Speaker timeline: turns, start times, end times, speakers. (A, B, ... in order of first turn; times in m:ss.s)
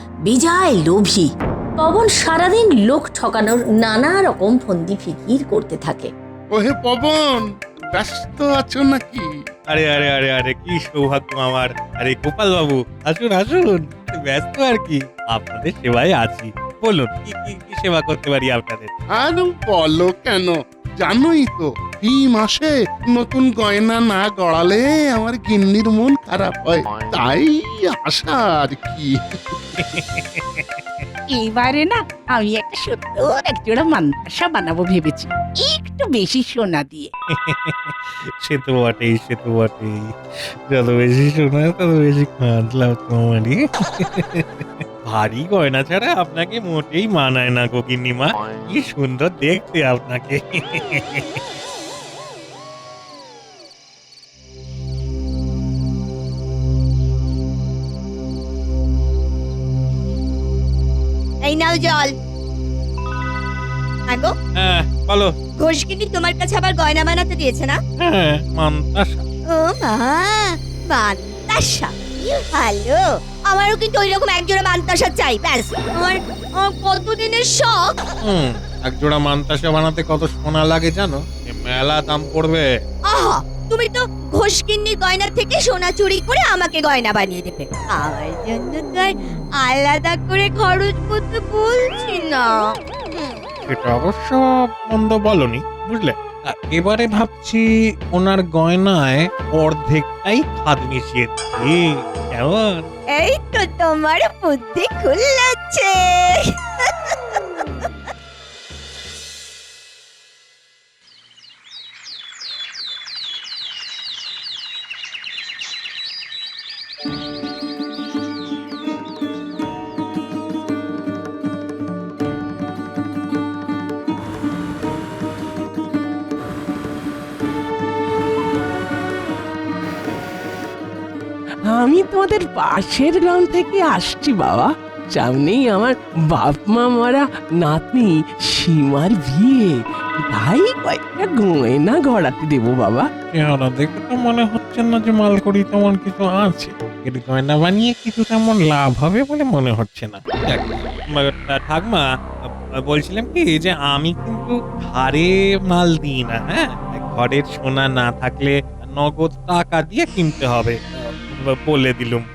0:00.3-0:01.3 A
0:01.8-0:06.1 A
0:06.5-0:09.3 B
0:09.7-0:18.9 C
0:19.2-0:29.9 B
0:29.8-0:31.0 C
0:31.3-0:37.1 D
0:37.3-0:40.0 C
0:40.7-0:51.4 C
1:01.4-1:02.1 E
1:04.1-1:04.3 E
1:04.6-1:05.3 C
1:05.6-1:07.8 E
1:08.0-1:09.2 C
1:09.5-1:18.0 E
1:18.2-1:22.7 C
1:23.0-1:32.8 E
1:33.7-1:42.9 C
1:43.1-1:47.4 E
2:11.7-2:23.1 F
2:23.3-2:42.3 C